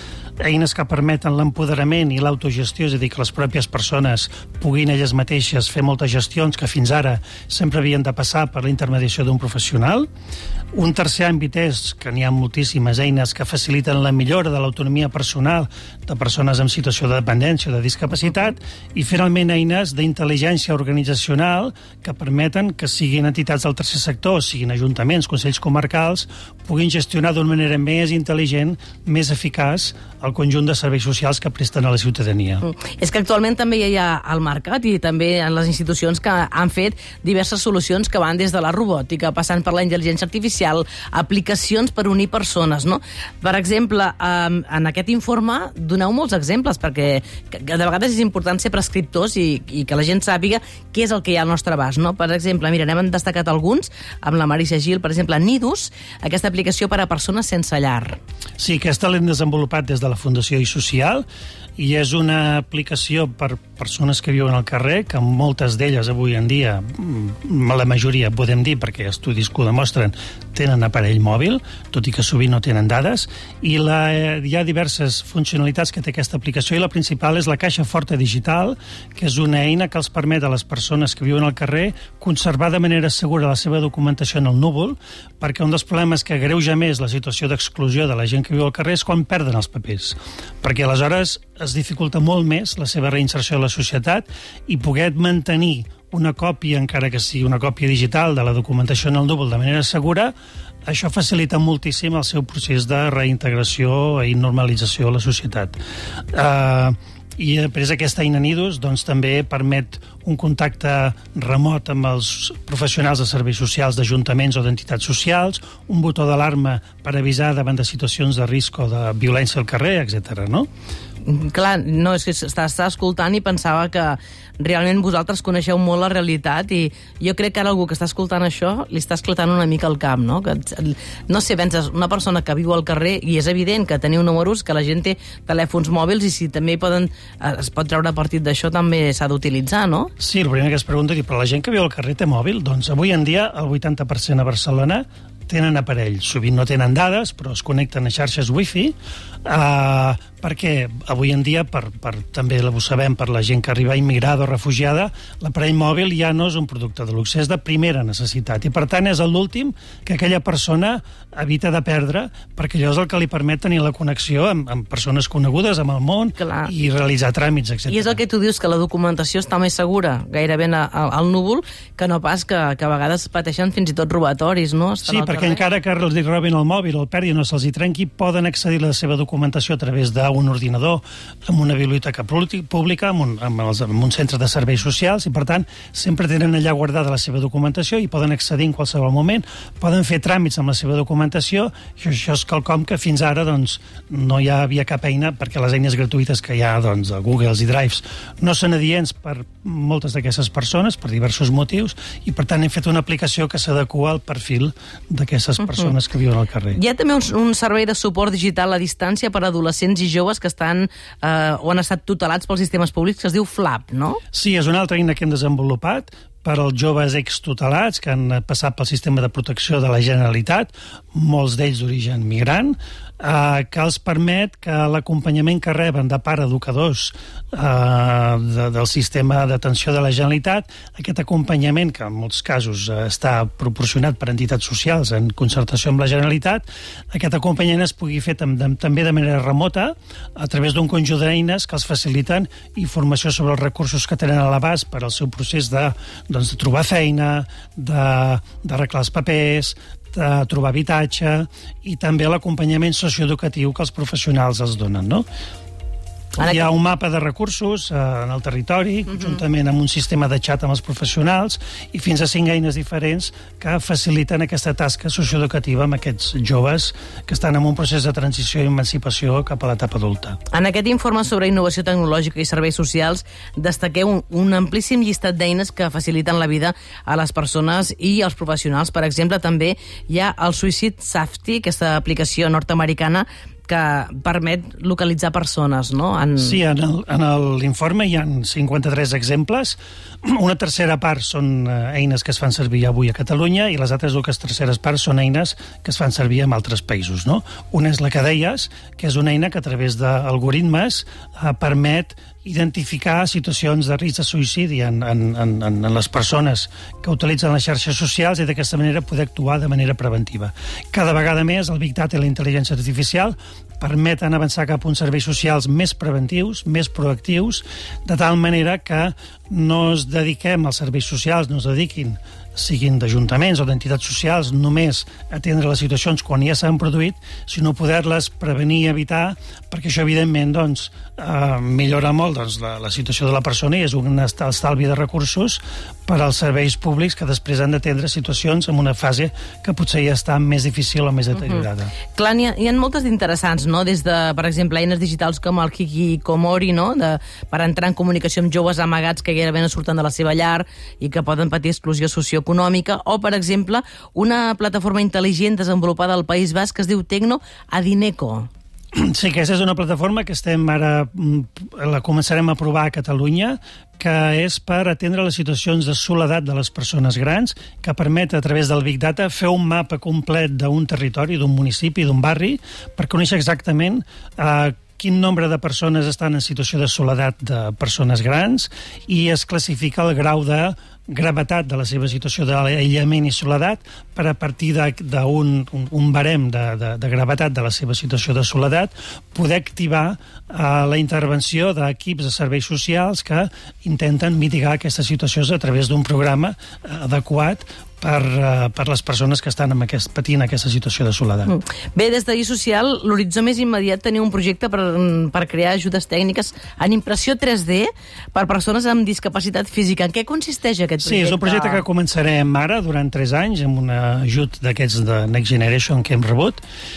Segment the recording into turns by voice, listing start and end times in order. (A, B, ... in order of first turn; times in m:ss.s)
0:00.4-0:10.1 A
0:10.7-0:32.7 A
0:32.6-0:58.2 B
0:58.6-1:01.3 A
1:01.8-1:40.3 A
1:40.9-1:45.8 A
1:46.3-2:00.7 A
2:01.2-2:20.1 B
2:20.2-2:28.9 A
2:29.4-2:48.2 A
2:46.4-2:46.7 B
2:47.9-2:55.6 B
2:55.0-3:26.8 A
3:25.6-3:25.9 B
3:26.7-3:34.2 B
3:34.3-4:15.2 A
4:16.4-4:16.7 B
4:16.4-4:30.4 A
4:30.5-4:46.6 B
4:46.4-5:41.9 A
5:42.1-5:58.5 B
5:58.9-6:41.5 A
6:41.5-6:51.8 B
6:51.0-6:56.6 A